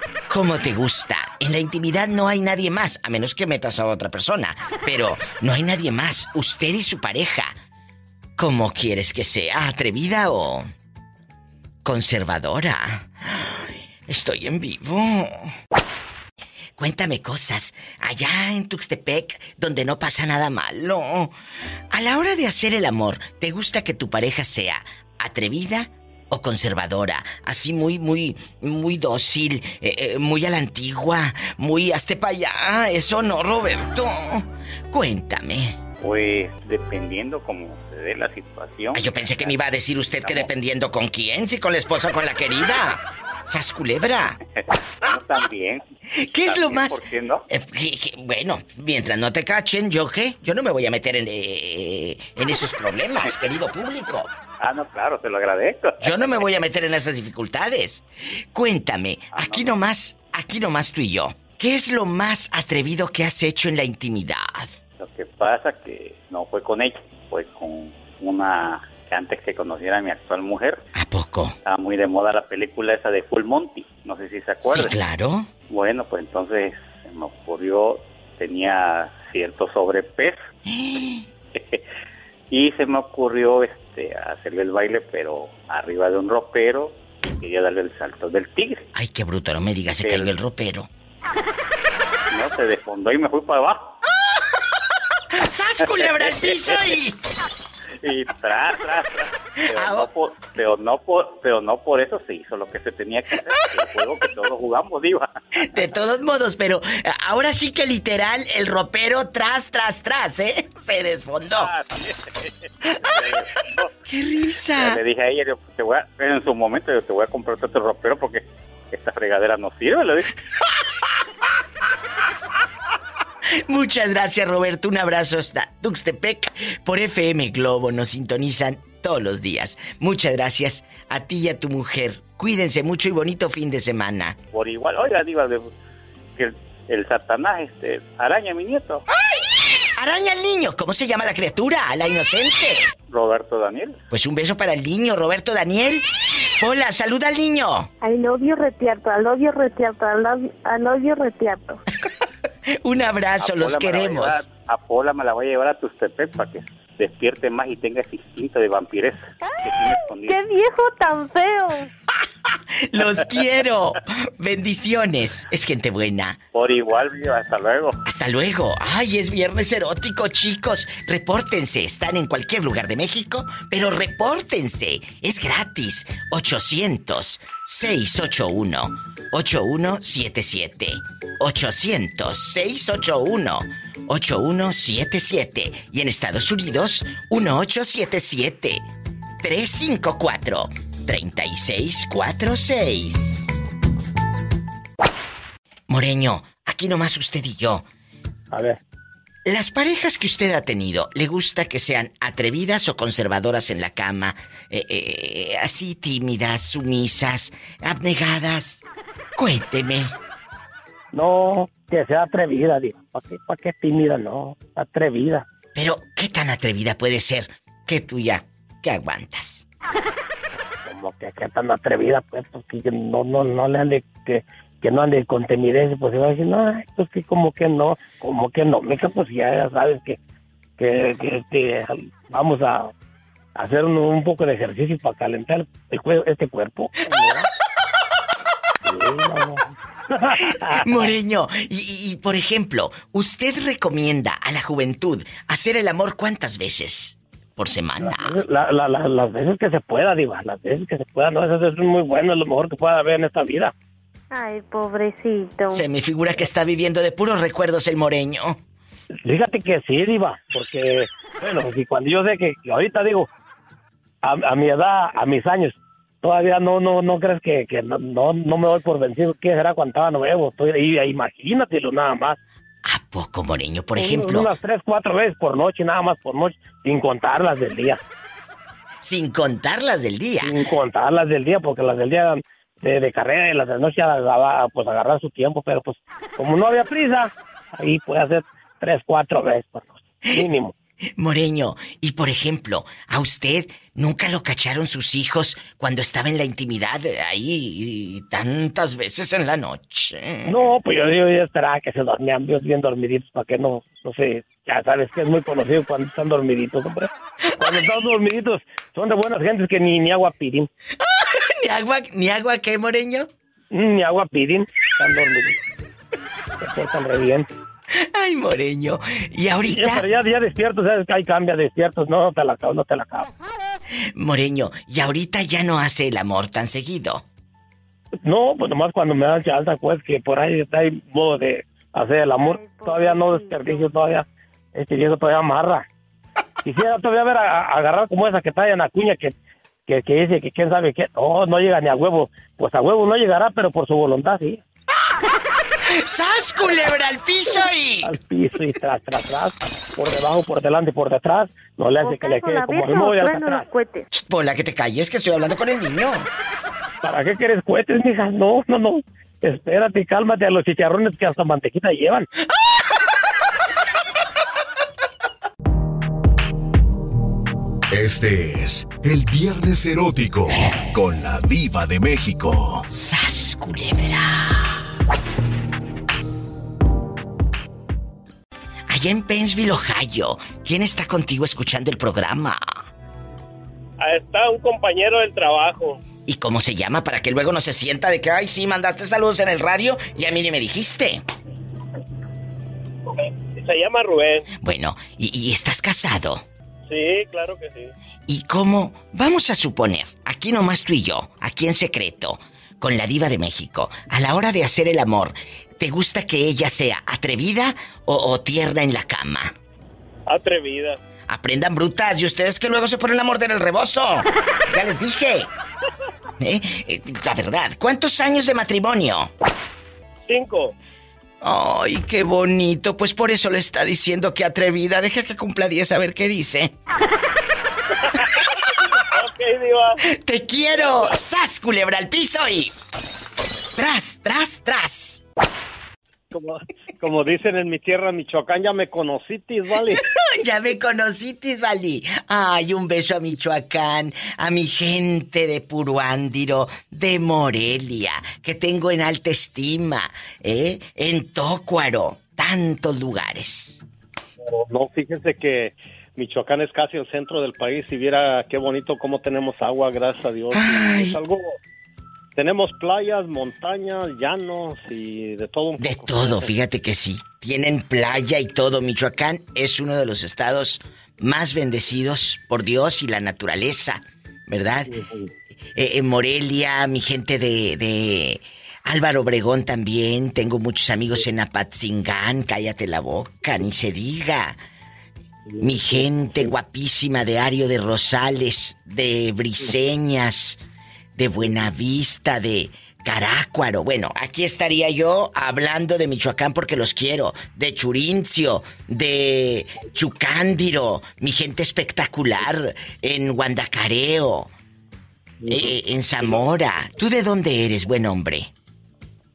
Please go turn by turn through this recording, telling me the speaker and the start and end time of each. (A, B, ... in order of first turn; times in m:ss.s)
0:00.3-0:07.5 A
0:08.4-0:10.7 A
0:11.8-0:15.5 A
0:16.8-0:21.3 A
0:21.9-0:35.8 A
0:36.0-0:39.6 B
0:38.9-0:44.4 A
0:40.2-0:40.5 B
0:44.6-0:45.8 B
0:46.2-0:54.3 A
0:46.4-0:47.5 B
0:54.6-0:56.5 B
0:56.0-1:04.7 A
0:59.3-0:59.7 B
1:05.0-1:10.9 B
1:11.0-1:11.6 A
1:11.6-1:15.0 B
1:14.7-1:15.5 A
1:15.7-1:20.4 B
1:20.7-1:21.2 A
1:21.5-1:21.8 B
1:22.5-1:28.9 B
1:28.9-1:30.9 A
1:30.0-1:30.3 B
1:32.3-1:33.9 B
1:35.3-1:37.2 A
1:35.9-1:36.9 B
1:38.0-1:45.3 B
1:39.7-1:40.1 A
1:45.6-1:51.7 A
1:51.5-1:53.9 B
1:54.1-1:55.0 A
1:54.8-2:00.3 B
2:03.7-2:14.4 A
2:14.5-2:15.7 B
2:16.4-2:19.0 B
2:19.2-2:22.9 A
2:23.1-2:24.0 B
2:24.1-2:26.1 A
2:26.6-2:27.9 A
2:28.0-2:31.8 C
2:32.8-2:34.4 A
2:33.4-2:40.4 B
2:39.5-2:41.9 C
2:42.9-2:46.4 A
2:46.5-2:48.0 B
2:48.0-3:08.9 A
3:09.4-3:13.6 A
3:15.9-3:17.8 A
3:18.5-3:18.8 D
3:19.5-3:28.8 A
3:29.4-3:30.2 A
3:31.1-3:35.5 D
3:35.8-3:39.6 A
3:40.8-3:50.2 D
3:50.8-3:52.9 D
3:53.6-3:57.5 D
3:58.9-4:01.1 D
4:00.4-4:08.4 A
4:08.0-4:13.7 D
4:14.3-4:15.8 C
4:15.7-4:18.6 A
4:19.2-4:23.3 D
4:24.2-4:32.4 D
4:32.8-4:34.5 A
4:34.0-4:38.0 D
4:39.0-4:40.6 A
4:40.4-4:50.7 D
4:51.2-5:00.6 A
5:00.5-5:10.7 D
5:11.1-5:13.3 A
5:13.7-5:15.6 D
5:16.6-5:17.5 D
5:18.1-5:20.0 A
5:19.7-5:23.3 D
5:24.2-5:27.2 A
5:28.2-5:35.9 D
5:32.4-5:33.9 C
5:36.6-5:39.4 D
5:39.9-5:44.6 D
5:45.9-5:48.1 A
5:48.0-5:53.7 D
5:52.0-5:54.1 C
5:54.1-5:56.3 A
5:57.0-6:02.3 D
6:07.9-6:12.8 E
6:12.9-6:14.8 A
6:18.9-6:22.6 A
6:24.0-6:26.0 F
6:26.3-6:31.2 A
6:33.5-6:34.5 F
6:34.6-6:36.4 A
6:36.9-6:37.9 F
6:38.3-6:49.5 A
6:50.3-6:51.0 F
6:51.3-6:55.5 A
6:56.4-6:59.3 A
7:00.3-7:00.8 F
7:01.4-7:06.7 A
7:08.0-7:10.0 F
7:10.1-7:12.7 A
7:10.7-7:11.2 F
7:13.8-7:15.2 A
7:16.3-7:20.0 B
7:20.2-7:33.8 A
7:34.4-7:41.5 B
7:40.5-7:41.2 A
7:42.4-7:46.5 B
7:45.8-7:54.9 A
7:55.8-8:04.6 A
8:05.6-8:10.6 A
8:11.2-8:24.5 A
8:25.4-8:25.7 B
8:25.5-8:28.5 A